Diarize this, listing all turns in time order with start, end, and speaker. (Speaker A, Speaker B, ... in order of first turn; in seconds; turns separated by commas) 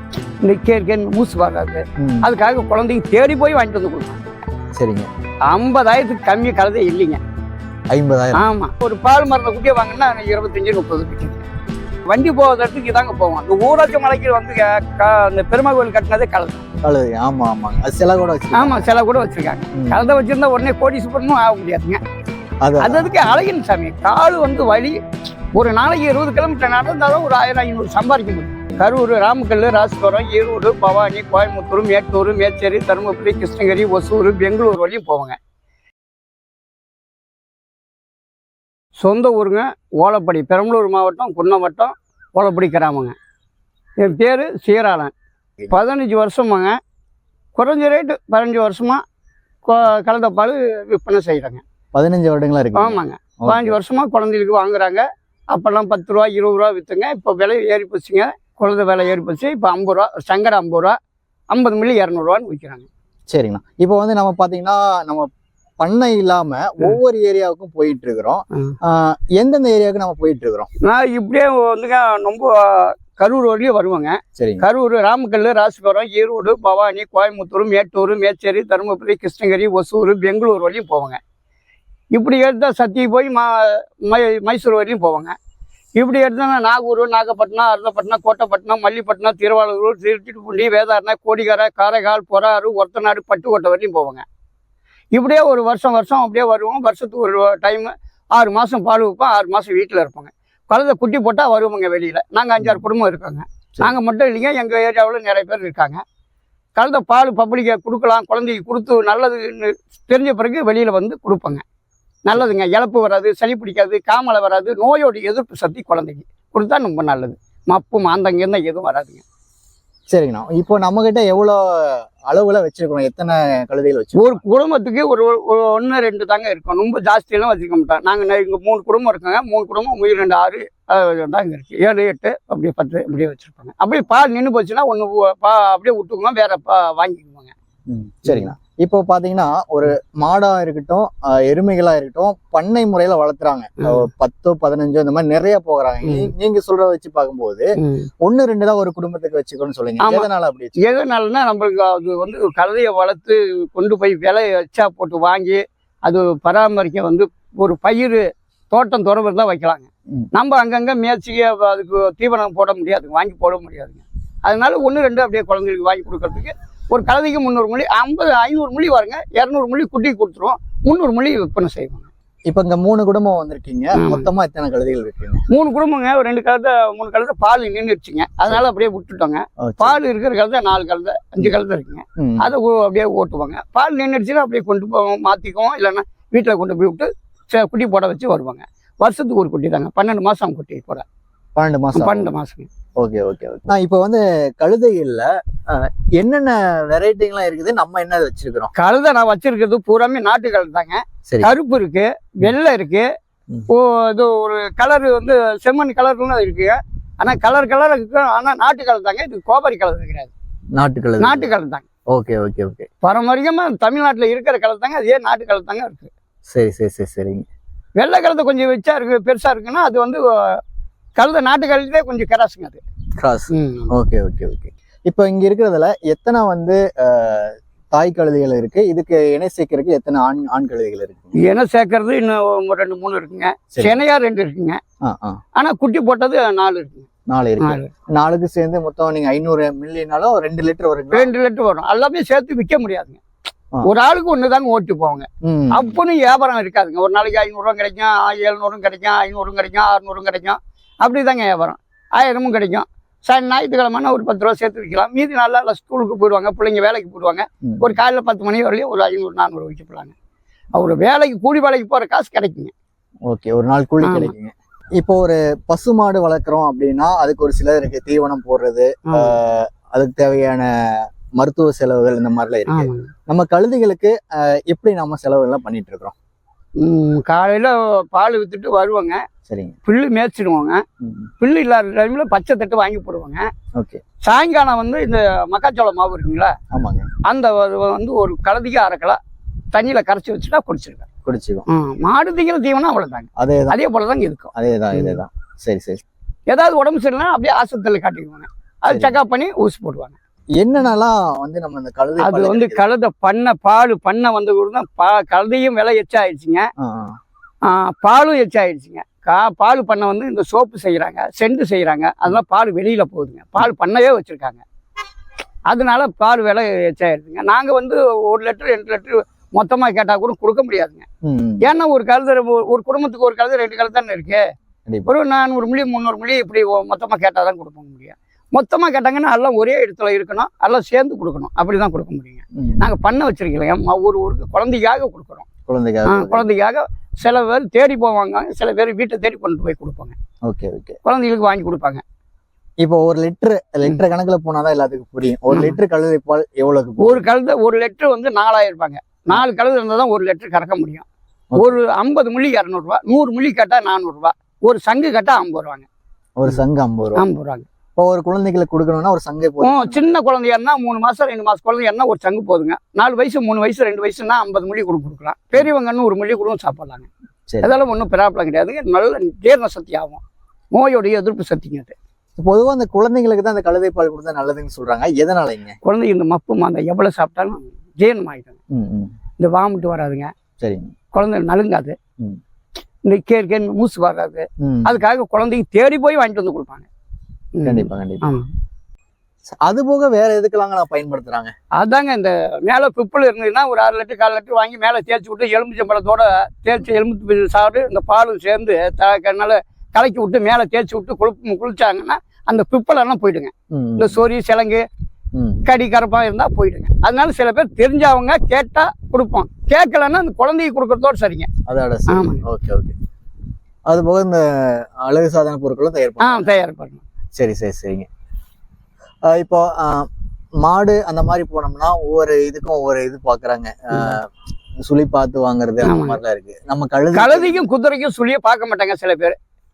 Speaker A: 0.4-4.2, Speaker B: 2.0-2.3, Speaker B: 4.8-5.1, Speaker A: 5.5-7.2, Speaker B: 7.9-8.4, Speaker A: 8.3-11.4, Speaker A: 12.1-16.6, Speaker B: 16.8-18.9, Speaker A: 18.5-22.0, Speaker B: 19.7-20.0, Speaker B: 22.6-23.1, Speaker A: 22.8-25.0, Speaker A: 25.5-35.4, Speaker A: 39.0-43.1, Speaker A: 44.0-45.1, Speaker A: 45.7-46.8, Speaker A: 47.5-49.0, Speaker A: 49.6-51.6, Speaker B: 51.9-53.8, Speaker A: 52.7-61.0, Speaker A: 61.5-62.9, Speaker B: 63.3-65.3, Speaker B: 65.8-70.7, Speaker A: 70.8-81.2, Speaker B: 74.4-74.6, Speaker A: 82.1-85.3, Speaker A: 86.0-94.2, Speaker A: 95.2-106.0, Speaker B: 102.6-102.8, Speaker A: 106.8-111.6, Speaker A: 112.2-119.2, Speaker B: 120.1-124.4, Speaker A: 124.2-137.5, Speaker B: 137.9-147.7, Speaker A: 143.8-144.1, Speaker A: 146.0-146.3, Speaker A: 147.8-148.1, Speaker B: 148.2-150.9, Speaker A: 150.0-150.3, Speaker A: 150.8-172.1, Speaker B: 172.5-175.4, Speaker A: 174.0-174.3, Speaker A: 175.5-191.0, Speaker B: 179.6-180.0, Speaker B: 182.2-182.5, Speaker B: 191.6-192.3, Speaker A: 191.9-192.7, Speaker B: 193.0-198.7, Speaker A: 198.7-203.1, Speaker A: 203.7-210.3, Speaker B: 210.8-211.5, Speaker A: 211.2-211.8, Speaker B: 212.1-212.9, Speaker A: 213.0-216.1, Speaker B: 216.5-217.5, Speaker A: 218.0-220.6, Speaker A: 221.2-222.8, Speaker B: 223.2-231.4, Speaker A: 223.5-223.9, Speaker A: 231.4-234.8, Speaker B: 233.7-234.0, Speaker B: 235.0-235.4, Speaker A: 235.6-237.1, Speaker B: 237.3-241.3, Speaker A: 237.6-237.9, Speaker A: 241.1-243.2, Speaker A: 243.8-260.1, Speaker B: 245.4-245.9, Speaker B: 257.6-258.0, Speaker A: 260.7-262.7, Speaker B: 263.3-276.1, Speaker A: 264.0-264.3, Speaker A: 269.1-269.3, Speaker A: 272.7-273.1, Speaker A: 276.8-279.2, Speaker B: 279.5-279.7, Speaker A: 279.9-280.8, Speaker B: 281.0-281.3, Speaker A: 281.4-283.5, Speaker B: 283.8-284.0, Speaker A: 284.2-286.5, Speaker B: 286.7-287.1, Speaker A: 287.2-289.2, Speaker A: 289.7-291.0, Speaker B: 291.2-291.7, Speaker A: 291.7-295.2, Speaker B: 293.4-293.8, Speaker B: 294.5-296.0, Speaker A: 296.5-300.1, Speaker B: 298.9-299.2, Speaker B: 300.6-302.9, Speaker A: 302.2-306.6, Speaker B: 306.8-307.1, Speaker A: 307.6-314.6, Speaker A: 315.7-321.0, Speaker B: 321.2-321.7, Speaker A: 321.6-324.4, Speaker B: 324.9-325.1, Speaker A: 325.1-335.5, Speaker B: 332.6-332.9, Speaker B: 335.7-336.5, Speaker A: 336.1-340.1, Speaker B: 340.4-341.0, Speaker A: 341.0-342.0, Speaker B: 342.8-347.2, Speaker A: 345.5-345.8, Speaker A: 347.0-355.9, Speaker B: 351.5-351.8, Speaker B: 356.4-357.2, Speaker A: 357.1-357.6, Speaker B: 358.0-360.1, Speaker A: 359.6-367.1, Speaker B: 367.5-367.7, Speaker A: 367.6-370.2, Speaker A: 370.7-371.9, Speaker B: 372.4-375.8, Speaker A: 375.8-378.6, Speaker B: 378.7-379.1, Speaker A: 379.4-380.3, Speaker B: 380.6-380.9, Speaker A: 381.1-381.9, Speaker A: 383.1-386.9, Speaker B: 384.6-385.0, Speaker A: 387.6-388.5, Speaker B: 387.6-388.3, Speaker B: 389.6-391.5, Speaker A: 391.8-404.8, Speaker B: 403.7-404.2, Speaker B: 405.3-405.6, Speaker A: 405.6-411.5, Speaker B: 411.6-412.9, Speaker A: 412.1-412.4, Speaker B: 413.9-416.5, Speaker A: 416.2-417.0, Speaker B: 417.4-418.1, Speaker B: 419.2-420.1, Speaker B: 420.6-424.3, Speaker B: 424.8-427.6, Speaker A: 425.8-426.2, Speaker A: 427.1-429.4